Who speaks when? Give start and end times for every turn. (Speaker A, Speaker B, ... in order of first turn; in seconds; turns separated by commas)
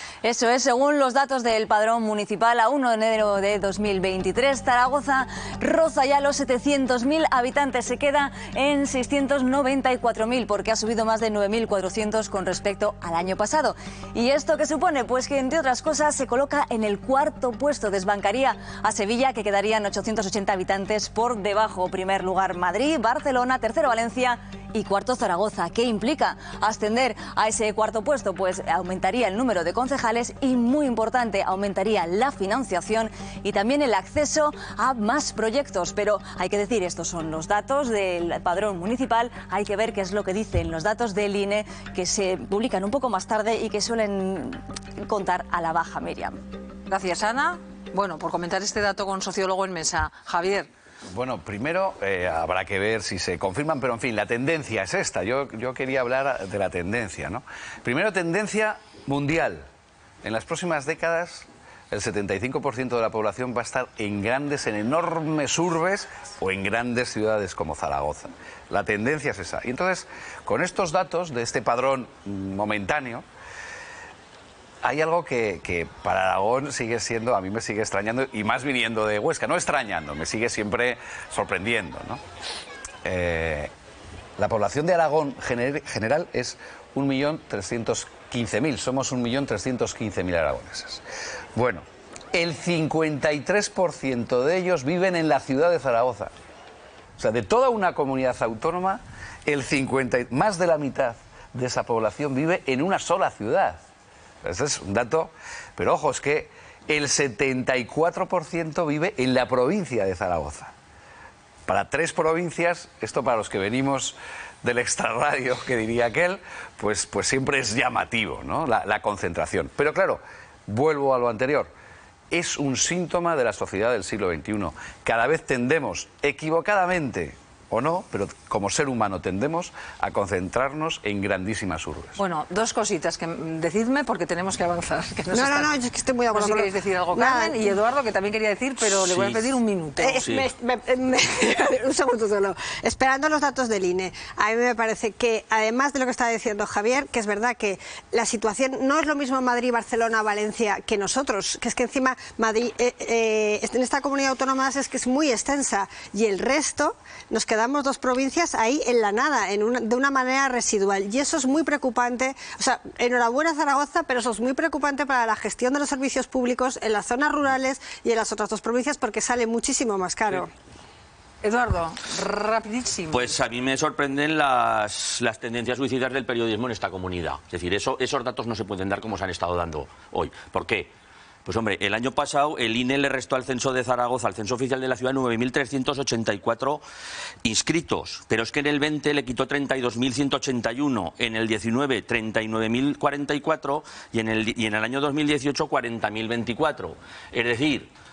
Speaker A: 0.2-46.4, Speaker B: 46.9-50.7, Speaker C: 51.1-59.6, Speaker C: 60.2-73.2, Speaker C: 74.8-82.2, Speaker C: 83.0-83.7, Speaker C: 84.4-91.0, Speaker C: 91.5-96.3, Speaker C: 97.2-103.8, Speaker C: 104.4-110.7, Speaker C: 111.7-121.7, Speaker C: 122.3-132.2, Speaker B: 132.2-135.7, Speaker D: 135.3-137.7, Speaker B: 136.3-140.2, Speaker E: 139.0-139.5, Speaker D: 140.0-170.5, Speaker E: 140.2-140.5, Speaker B: 171.4-173.4, Speaker E: 173.1-180.9, Speaker E: 181.4-186.8, Speaker E: 187.4-197.9